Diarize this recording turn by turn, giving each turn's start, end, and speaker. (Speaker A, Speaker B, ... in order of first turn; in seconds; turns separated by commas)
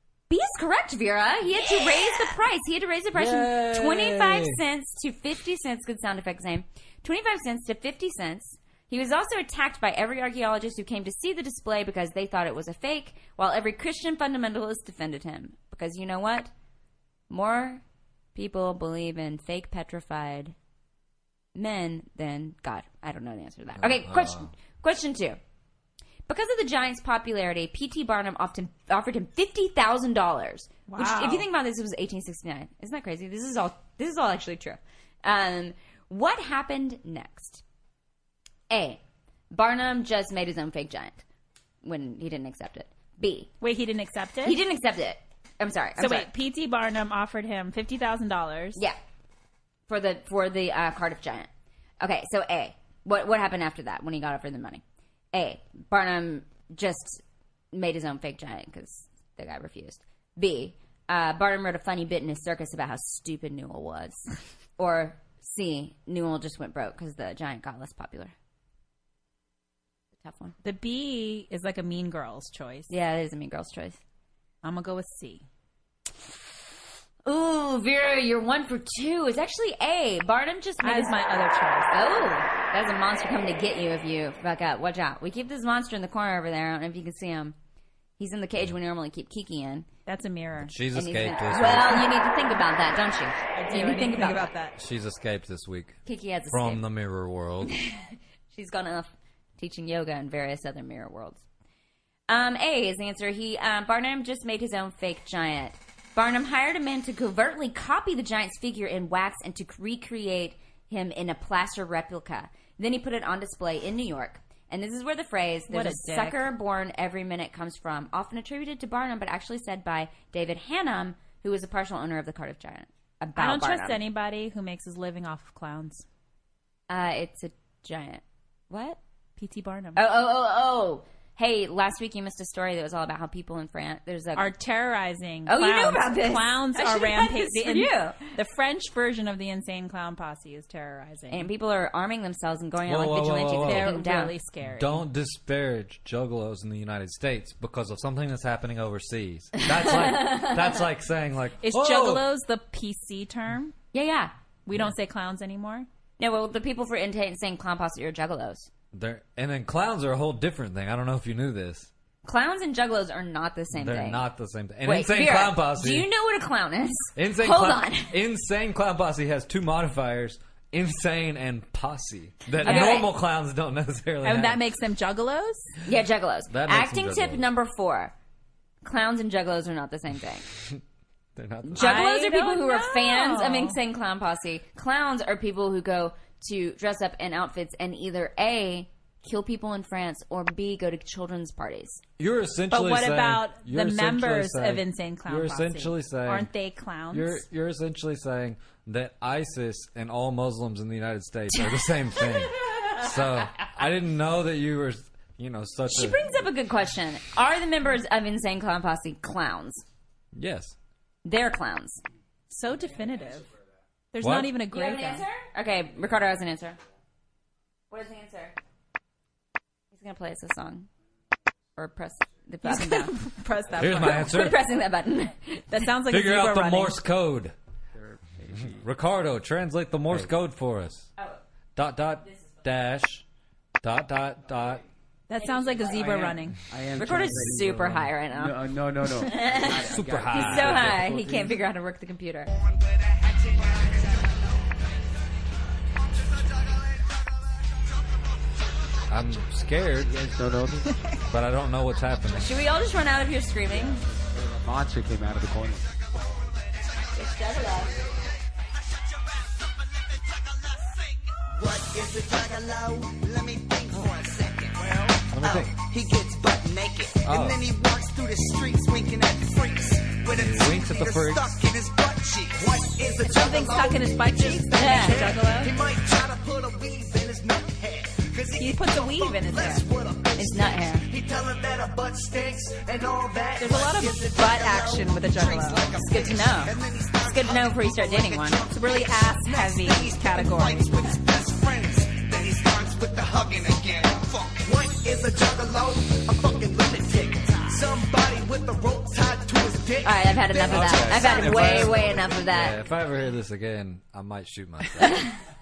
Speaker A: 0.3-16.5, Speaker B: 3.1-4.6, Speaker A: 17.3-17.8, Speaker A: 18.4-20.6, Speaker A: 21.6-25.4, Speaker B: 23.8-24.5, Speaker A: 26.3-37.6, Speaker C: 30.9-31.5, Speaker A: 38.7-39.0, Speaker A: 39.5-41.2, Speaker A: 41.8-43.5, Speaker C: 43.6-44.6, Speaker A: 44.4-46.3, Speaker C: 46.0-48.8, Speaker A: 49.9-51.5, Speaker A: 52.0-54.8, Speaker A: 55.3-57.2, Speaker A: 57.7-68.3, Speaker A: 70.2-70.5, Speaker C: 70.6-72.9, Speaker A: 72.9-74.0, Speaker C: 74.6-75.5, Speaker A: 77.2-81.1, Speaker C: 80.8-81.9, Speaker A: 81.9-87.5, Speaker A: 88.2-89.9, Speaker C: 90.1-90.8, Speaker B: 90.6-92.1, Speaker A: 90.9-94.5, Speaker C: 93.5-94.8, Speaker B: 94.8-96.0, Speaker A: 96.0-96.8, Speaker B: 96.5-97.7, Speaker A: 97.7-101.4, Speaker A: 102.3-124.0, Speaker C: 115.7-116.5, Speaker C: 123.4-126.0, Speaker A: 126.9-129.0, Speaker C: 129.4-130.1, Speaker A: 129.9-134.5, Speaker C: 134.4-141.5, Speaker A: 135.5-138.3, Speaker A: 141.3-144.3, Speaker B: 142.9-144.0, Speaker C: 143.6-145.0, Speaker B: 144.6-152.3, Speaker A: 149.6-150.8, Speaker C: 151.6-153.7, Speaker A: 153.9-154.3, Speaker C: 154.7-155.9, Speaker A: 156.2-158.7, Speaker B: 158.9-161.9, Speaker A: 162.2-164.3, Speaker B: 163.7-166.1, Speaker A: 164.8-168.1, Speaker B: 167.2-174.6, Speaker C: 172.6-173.1, Speaker A: 172.6-173.1, Speaker C: 174.2-175.7, Speaker A: 175.8-178.1, Speaker B: 176.5-177.5, Speaker A: 178.8-180.4, Speaker B: 181.4-182.1, Speaker A: 181.6-192.0, Speaker C: 181.8-183.8, Speaker B: 192.2-196.5, Speaker C: 192.7-197.4, Speaker B: 197.1-206.2, Speaker A: 205.9-209.8, Speaker B: 210.3-210.7, Speaker A: 211.2-212.0, Speaker C: 212.5-213.5, Speaker C: 214.1-215.2, Speaker B: 214.2-214.6, Speaker A: 214.7-216.8, Speaker A: 217.9-218.6, Speaker A: 219.9-220.9, Speaker A: 221.8-223.2, Speaker C: 222.6-224.6, Speaker B: 223.7-224.6, Speaker A: 223.8-225.7, Speaker C: 225.7-227.0, Speaker B: 226.1-227.5, Speaker D: 227.9-228.9, Speaker B: 228.6-231.1, Speaker B: 231.8-233.2, Speaker B: 233.8-234.8, Speaker C: 235.3-236.6, Speaker A: 235.6-236.3, Speaker D: 236.0-241.6, Speaker A: 236.9-242.5, Speaker B: 239.9-241.1, Speaker E: 242.5-244.8, Speaker E: 246.1-247.0, Speaker B: 249.1-250.1, Speaker D: 250.0-251.1, Speaker B: 251.3-252.5, Speaker A: 252.3-254.1, Speaker D: 253.7-255.9, Speaker A: 257.2-257.9, Speaker E: 257.4-258.2, Speaker E: 260.2-301.6, Speaker B: 265.3-265.8, Speaker B: 267.2-267.6, Speaker B: 270.3-271.6, Speaker C: 273.2-275.8, Speaker A: 274.7-275.2, Speaker C: 278.6-279.9, Speaker A: 280.4-281.1, Speaker C: 283.6-286.5, Speaker A: 286.0-286.7, Speaker A: 287.2-288.6, Speaker C: 288.7-291.1, Speaker A: 300.0-302.8, Speaker B: 300.6-305.3, Speaker A: 305.0-305.4